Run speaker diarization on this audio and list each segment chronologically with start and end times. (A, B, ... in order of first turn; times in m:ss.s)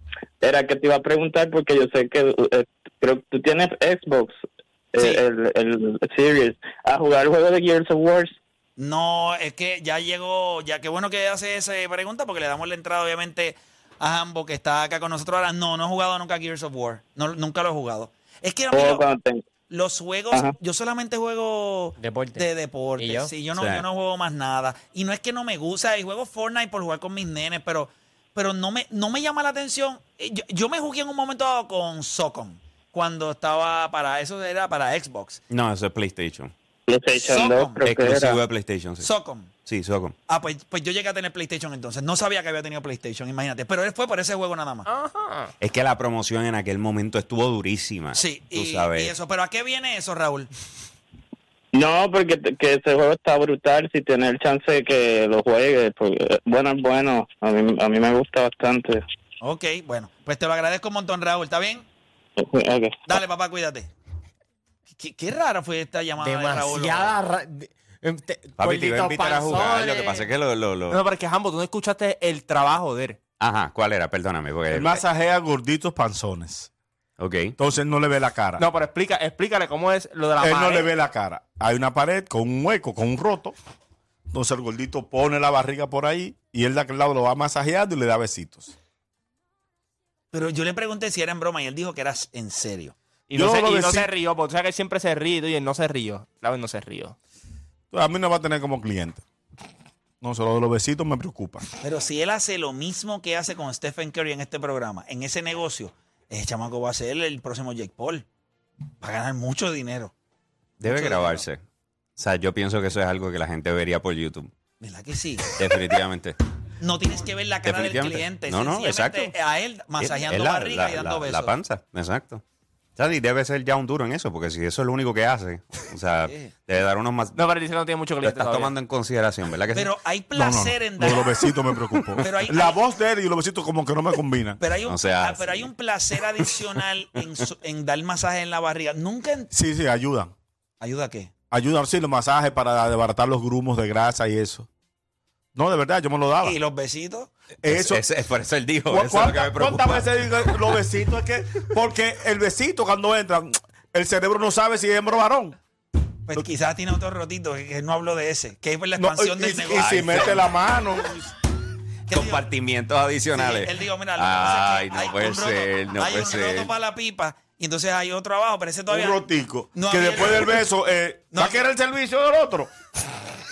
0:00.4-0:04.3 A
0:04.9-0:08.4 A
0:05.0-0:05.2 B
0:08.8-0:19.1 B
0:18.7-0:19.4 A
0:19.7-0:35.4 B
0:22.0-0:22.4 C
0:23.0-0:23.3 C
0:23.5-0:23.8 D
0:35.5-0:36.5 D
0:36.9-0:38.4 A
0:37.2-0:37.9 B
0:37.9-0:39.1 D
0:39.0-0:39.5 B
0:39.6-0:40.1 D
0:40.3-0:44.9 B
0:44.9-0:45.5 E
0:45.6-0:49.1 D
0:48.1-0:50.5 B
0:51.7-0:59.0 A
0:59.4-1:01.8 B
1:02.4-1:03.0 A
1:03.1-1:03.9 B
1:05.0-1:07.1 B
1:06.2-1:10.3 C
1:08.6-1:11.0 D
1:10.9-1:13.2 E
1:13.4-1:15.0 D
1:14.7-1:16.7 F
1:17.2-1:17.5 D
1:17.6-1:18.6 F
1:18.6-1:20.9 E
1:20.4-1:23.6 F
1:24.3-1:28.7 F
1:30.3-1:32.9 B
1:33.3-1:37.2 E
1:33.4-1:34.1 F
1:37.9-1:39.2 F
1:40.2-1:41.6 F
1:41.8-1:48.2 B
1:49.0-1:50.1 B
1:50.8-1:51.6 D
1:50.9-1:51.4 B
1:52.2-1:54.5 D
1:54.8-1:55.5 B
1:55.6-1:56.4 D
1:56.8-2:01.5 B
1:57.6-1:59.3 D
2:00.0-2:02.4 D
2:03.0-2:07.4 D
2:06.2-2:06.5 B
2:07.3-2:08.7 E
2:08.2-2:09.9 D
2:09.7-2:11.5 B
2:10.4-2:14.6 F
2:12.2-2:12.8 B
2:14.6-2:19.5 B
2:14.9-2:15.7 D
2:19.5-2:20.3 F
2:20.8-2:21.3 B
2:21.5-2:24.7 F
2:25.5-2:26.6 F
2:26.4-2:27.3 B
2:27.6-2:28.0 F
2:27.6-2:30.1 D
2:28.9-2:35.6 F
2:36.3-2:40.4 B
2:39.0-2:41.3 F
2:39.7-2:40.4 D
2:42.1-2:42.5 B
2:42.1-2:46.7 D
2:43.3-2:49.2 B
2:48.9-2:52.7 F
2:49.7-2:50.6 B
2:51.3-2:51.7 B